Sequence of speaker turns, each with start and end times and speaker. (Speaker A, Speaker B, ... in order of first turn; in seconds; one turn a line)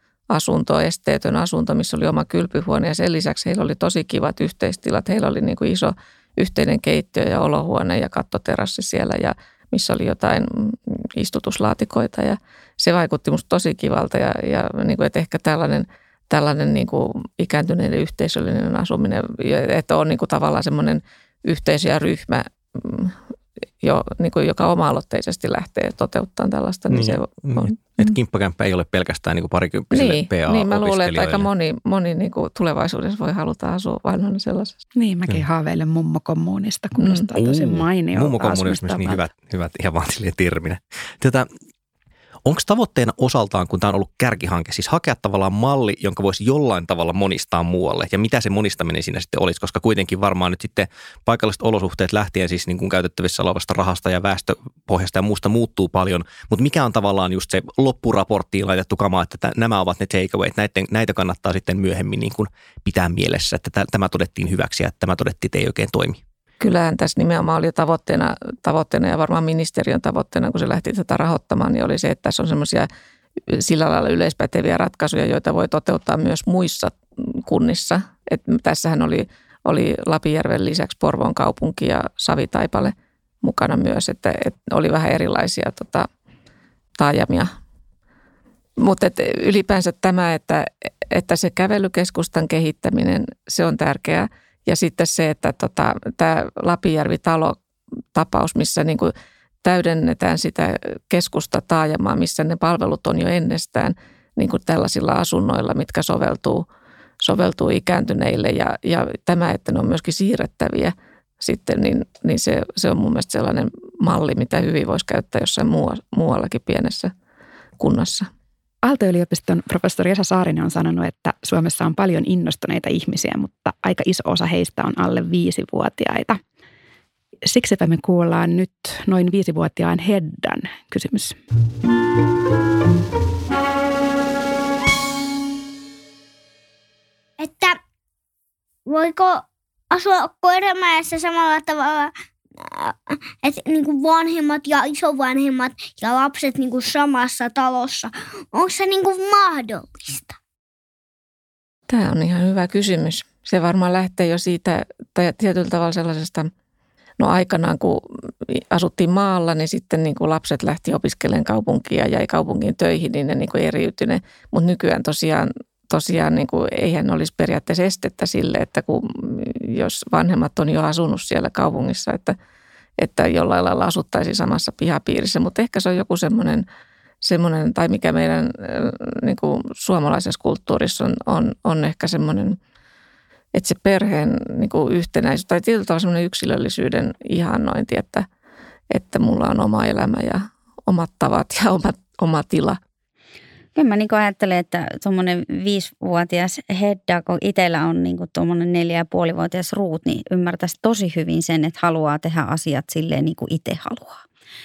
Speaker A: 0.3-23.1
Speaker A: 23.8-28.1
Speaker B: 26.9-31.5
Speaker A: 29.9-34.8
Speaker C: 34.9-39.2
Speaker A: 37.0-37.3
Speaker B: 37.4-41.5
Speaker B: 42.4-66.2
Speaker A: 66.6-72.9
Speaker A: 73.5-86.1
Speaker A: 87.0-87.5
Speaker A: 88.8-97.6
Speaker A: 98.1-106.7
Speaker A: 107.2-117.1
Speaker A: 117.8-118.3
Speaker C: 118.8-126.4
Speaker C: 127.5-131.4
Speaker D: 137.4-137.8
Speaker D: 138.8-150.4
Speaker A: 151.9-156.5
Speaker A: 157.2-172.3
Speaker A: 173.0-176.7
Speaker A: 177.2-182.6
Speaker A: 183.5-188.2
Speaker A: 188.9-192.8
Speaker E: 193.7-204.2